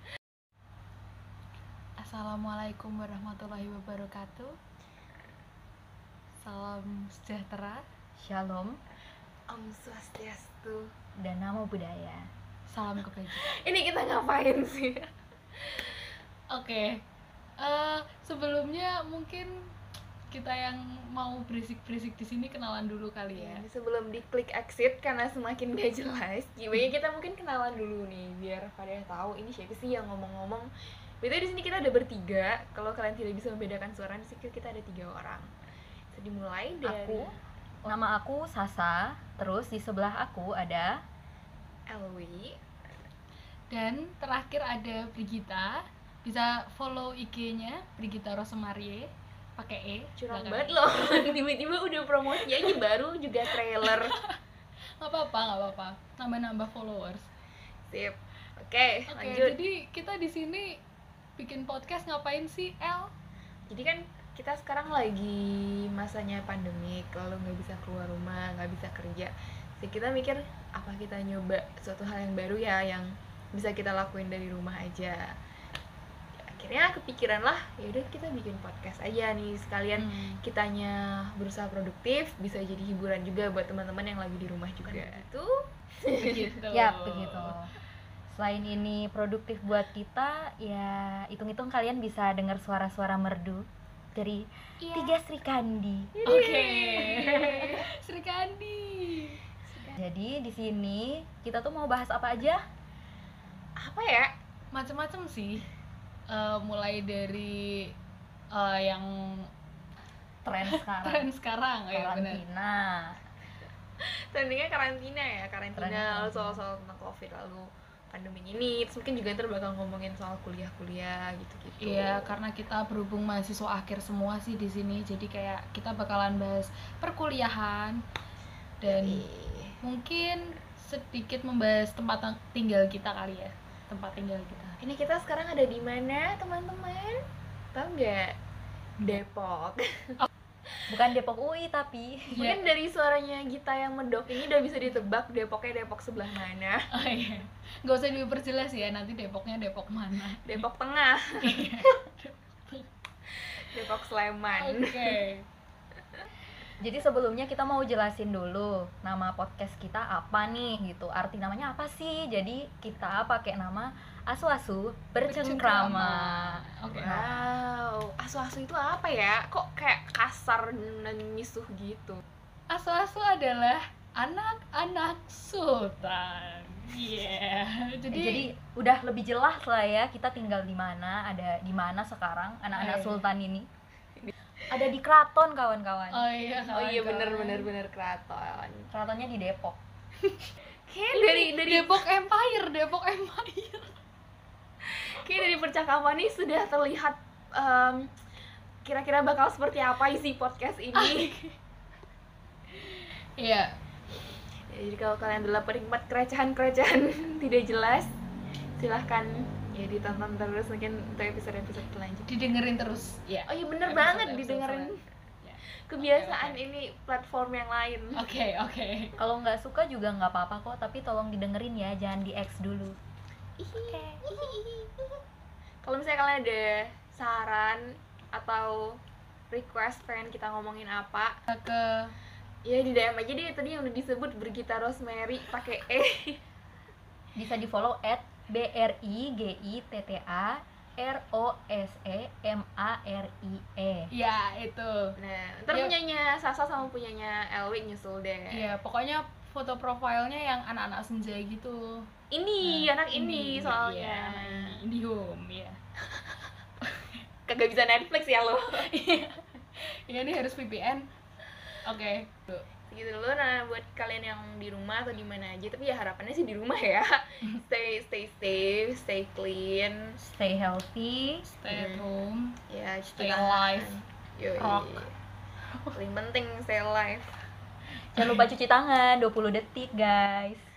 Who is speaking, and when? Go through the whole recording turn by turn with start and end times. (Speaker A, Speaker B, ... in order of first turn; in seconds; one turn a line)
Speaker A: 2.0-4.5
Speaker A: 6.4-7.8
Speaker B: 8.2-8.8
Speaker C: 9.5-10.9
Speaker B: 11.2-12.3
Speaker A: 12.7-13.5
Speaker C: 13.3-15.1
Speaker A: 16.5-17.0
Speaker A: 17.6-19.5
Speaker A: 20.3-23.6
Speaker C: 23.3-30.7
Speaker C: 31.2-35.5
Speaker C: 36.1-37.3
Speaker B: 36.8-37.3
Speaker B: 37.9-40.9
Speaker C: 41.9-42.6
Speaker A: 43.7-51.4
Speaker C: 50.2-54.1
Speaker A: 52.4-52.7
Speaker A: 53.8-54.4
Speaker A: 55.0-57.3
Speaker C: 57.9-59.6
Speaker A: 59.1-60.8
Speaker A: 61.4-63.1
Speaker C: 63.7-75.3
Speaker C: 76.4-85.5
Speaker A: 80.0-80.4
Speaker A: 84.9-85.2
Speaker C: 86.0-86.5
Speaker A: 86.2-87.5
Speaker B: 86.7-87.7
Speaker B: 88.3-96.1
Speaker A: 94.8-95.2
Speaker C: 96.2-97.8
Speaker A: 96.2-99.4
Speaker B: 100.0-102.6
Speaker C: 103.8-104.3
Speaker A: 104.7-105.7
Speaker A: 106.3-107.9
Speaker A: 108.5-109.5
Speaker B: 110.4-111.3
Speaker A: 110.6-112.4
Speaker B: 111.9-113.2
Speaker C: 114.0-122.3
Speaker B: 115.8-116.6
Speaker A: 121.8-128.0
Speaker A: 128.8-129.2
Speaker C: 128.9-129.8
Speaker A: 129.8-134.8
Speaker C: 134.8-137.2
Speaker C: 137.7-138.4
Speaker C: 139.0-140.2
Speaker B: 140.9-142.5
Speaker A: 142.3-142.6
Speaker C: 142.3-146.9
Speaker A: 146.9-150.6
Speaker C: 150.4-151.7
Speaker A: 151.4-152.9
Speaker C: 153.7-155.2
Speaker A: 154.5-155.4
Speaker B: 156.8-167.4
Speaker A: 165.2-167.2
Speaker C: 166.9-172.2
Speaker A: 172.7-178.5
Speaker B: 178.1-183.7
Speaker A: 182.7-183.2
Speaker B: 184.7-186.2
Speaker A: 186.1-187.7
Speaker C: 186.6-188.9
Speaker B: 188.9-189.8
Speaker C: 190.9-192.0
Speaker A: 191.1-193.9
Speaker C: 194.8-198.1
Speaker C: 198.8-201.3
Speaker A: 200.9-201.5
Speaker A: 202.7-203.7
Speaker C: 204.7-208.1
Speaker C: 208.8-212.3
Speaker A: 212.2-216.6
Speaker C: 213.5-215.0
Speaker C: 215.9-218.2
Speaker A: 218.1-219.1
Speaker B: 219.2-222.9
Speaker C: 223.6-225.2
Speaker A: 223.9-224.2
Speaker C: 225.8-229.0
Speaker C: 229.5-231.3
Speaker A: 231.5-232.1
Speaker C: 232.6-236.4
Speaker B: 237.4-244.1
Speaker A: 244.1-245.2
Speaker C: 245.2-248.7
Speaker A: 248.5-252.1
Speaker C: 252.3-254.8
Speaker A: 252.6-255.8
Speaker C: 257.5-258.9
Speaker A: 258.8-261.1
Speaker A: 261.8-262.6
Speaker C: 262.9-270.2
Speaker B: 270.2-271.4
Speaker A: 271.4-272.6
Speaker C: 271.7-272.1
Speaker C: 272.7-275.1
Speaker A: 273.1-273.9
Speaker A: 274.6-275.1
Speaker C: 275.9-277.3
Speaker B: 278.1-280.7
Speaker A: 278.2-278.4